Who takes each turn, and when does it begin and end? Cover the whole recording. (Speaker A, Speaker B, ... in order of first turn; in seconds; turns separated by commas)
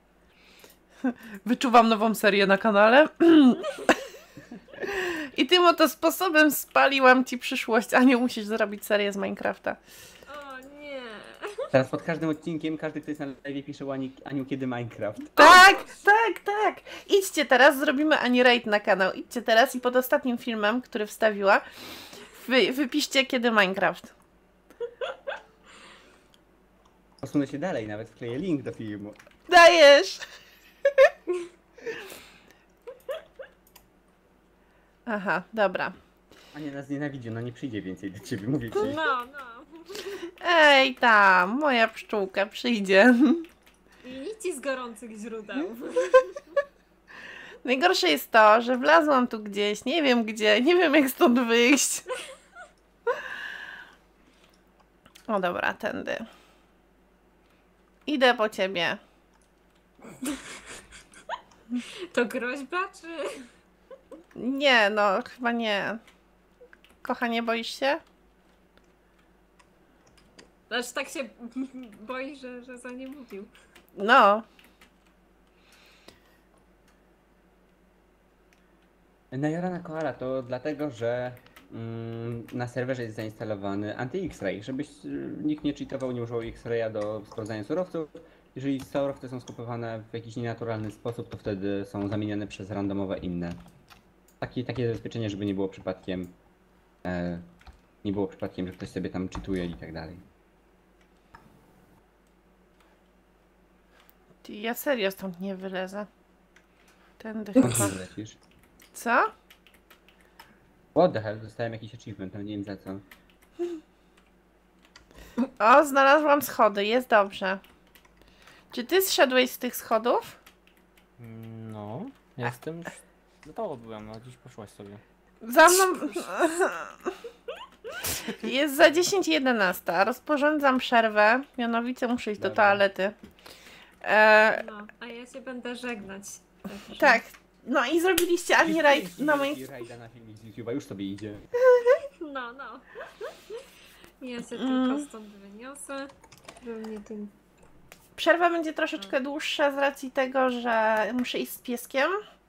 Speaker A: 1.0-3.7, Speaker A: 4.9-9.8, Speaker B: 10.3-11.8, Speaker C: 11.7-15.6, Speaker A: 15.4-21.6, Speaker A: 22.2-24.1, Speaker C: 27.2-29.2, Speaker A: 29.5-30.2, Speaker A: 35.1-36.0, Speaker C: 36.5-39.0, Speaker B: 38.8-40.3, Speaker A: 40.4-43.5, Speaker B: 44.0-46.6, Speaker A: 47.6-52.1, Speaker A: 55.3-56.3, Speaker A: 58.1-59.0, Speaker B: 60.2-60.6, Speaker B: 61.9-63.5, Speaker A: 64.4-66.0, Speaker A: 67.0-68.0, Speaker B: 70.7-73.5, Speaker A: 74.0-74.5, Speaker C: 79.3-93.6, Speaker C: 94.4-96.3, Speaker C: 97.0-97.5, Speaker C: 98.0-100.2, Speaker A: 104.4-106.1, Speaker A: 107.2-108.0, Speaker C: 107.6-108.4, Speaker A: 108.9-109.3, Speaker C: 110.9-113.0, Speaker A: 115.6-117.6, Speaker A: 118.7-120.4, Speaker D: 121.2-125.0, Speaker A: 125.4-127.2, Speaker A: 128.2-133.2, Speaker C: 132.4-132.9, Speaker A: 134.0-134.6, Speaker B: 134.6-137.2, Speaker A: 136.9-139.6, Speaker C: 138.6-141.5, Speaker B: 142.0-143.7, Speaker B: 144.2-147.3, Speaker A: 144.5-145.1, Speaker A: 148.2-152.2